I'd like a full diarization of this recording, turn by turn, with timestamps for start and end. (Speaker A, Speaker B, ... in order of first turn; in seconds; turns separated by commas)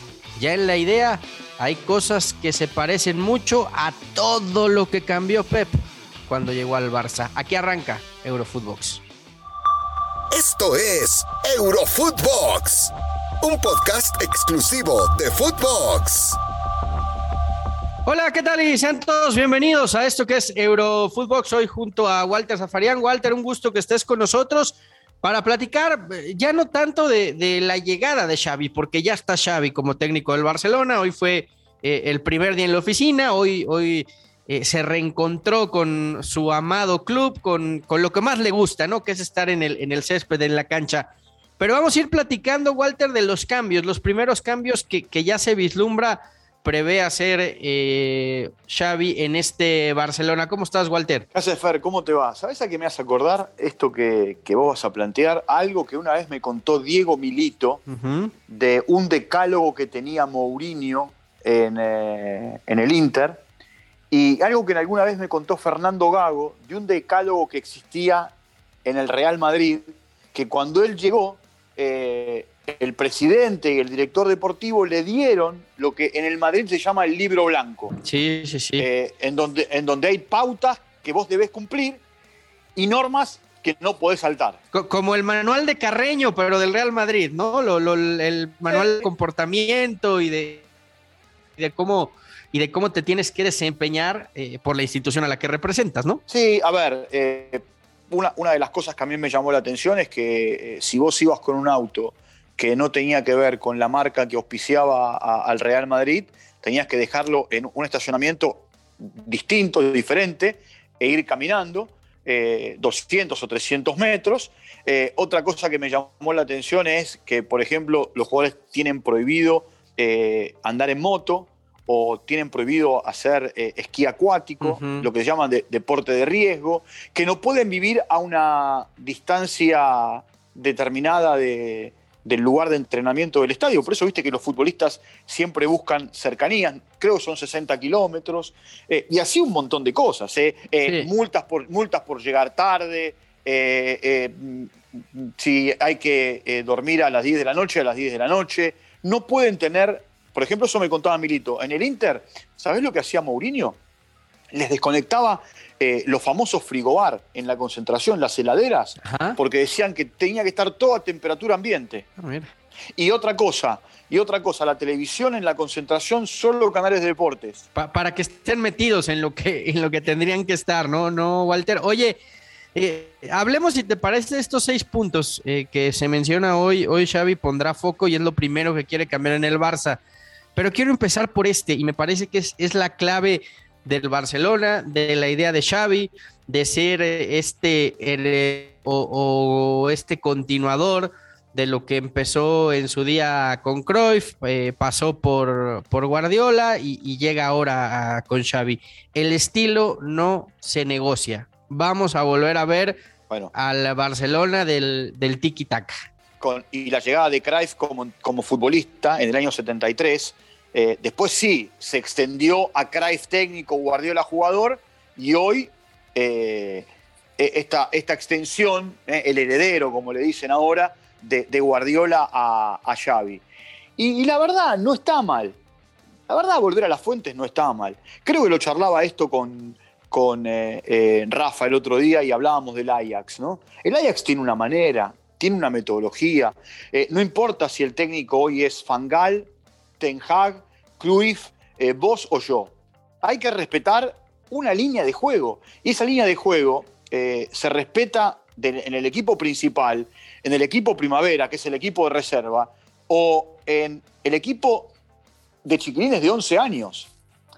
Speaker A: 0.4-9.0, Speaker B: 10.3-16.4, Speaker A: 18.0-41.1, Speaker A: 41.6-51.3, Speaker C: 51.3-57.8, Speaker A: 57.9-58.3, Speaker C: 58.5-63.4, Speaker C: 64.1-77.9, Speaker A: 78.0-78.9, Speaker C: 78.8-82.0, Speaker C: 82.8-84.6, Speaker A: 84.7-90.7, Speaker C: 88.7-89.1, Speaker A: 91.6-96.2, Speaker C: 96.3-153.8, Speaker A: 124.6-125.1, Speaker C: 154.5-162.1, Speaker A: 159.0-159.4, Speaker A: 162.2-162.5, Speaker C: 162.9-167.6, Speaker A: 167.7-172.2, Speaker A: 172.7-180.0, Speaker A: 180.5-203.0, Speaker A: 203.5-205.9, Speaker C: 206.4-223.4, Speaker C: 224.0-225.6, Speaker C: 226.3-239.5, Speaker C: 240.0-254.9, Speaker C: 255.6-257.1